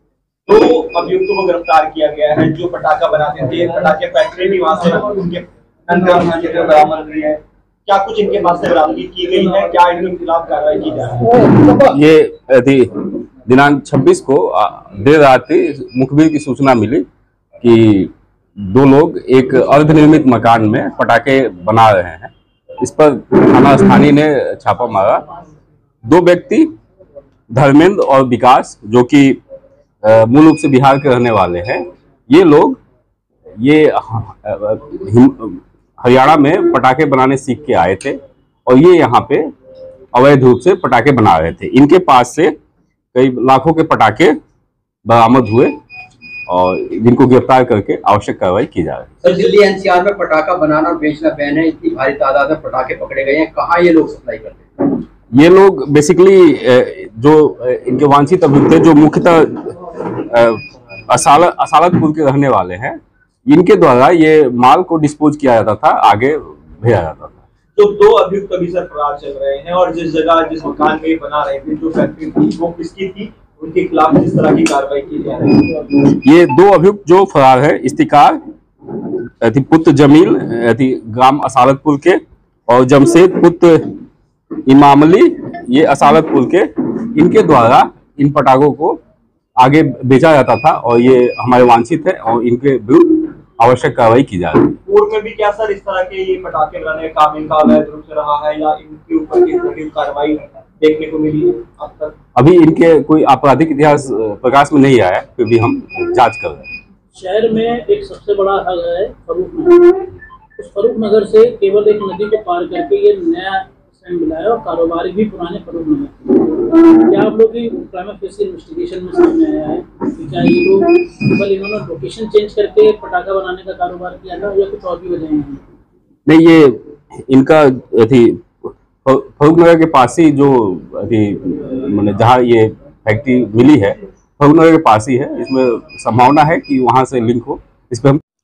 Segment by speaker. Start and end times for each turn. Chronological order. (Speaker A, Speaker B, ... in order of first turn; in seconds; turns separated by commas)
Speaker A: 0.5-11.6, Speaker B: 11.6-17.1, Speaker B: 17.6-25.2, Speaker B: 26.0-26.7, Speaker B: 27.5-29.4, Speaker B: 30.0-32.8, Speaker B: 33.6-39.5, Speaker B: 40.1-42.5, Speaker B: 43.1-44.3, Speaker B: 45.0-45.7, Speaker B: 46.5-49.2, Speaker A: 49.2-49.5, Speaker C: 49.2-54.6, Speaker B: 55.3-67.4, Speaker A: 67.7-75.8, Speaker B: 76.2-78.4, Speaker B: 78.9-84.0, Speaker B: 84.7-89.0, Speaker B: 89.6-94.8, Speaker A: 94.8-102.1, Speaker B: 102.3-106.7, Speaker D: 107.1-125.6, Speaker B: 126.3-138.2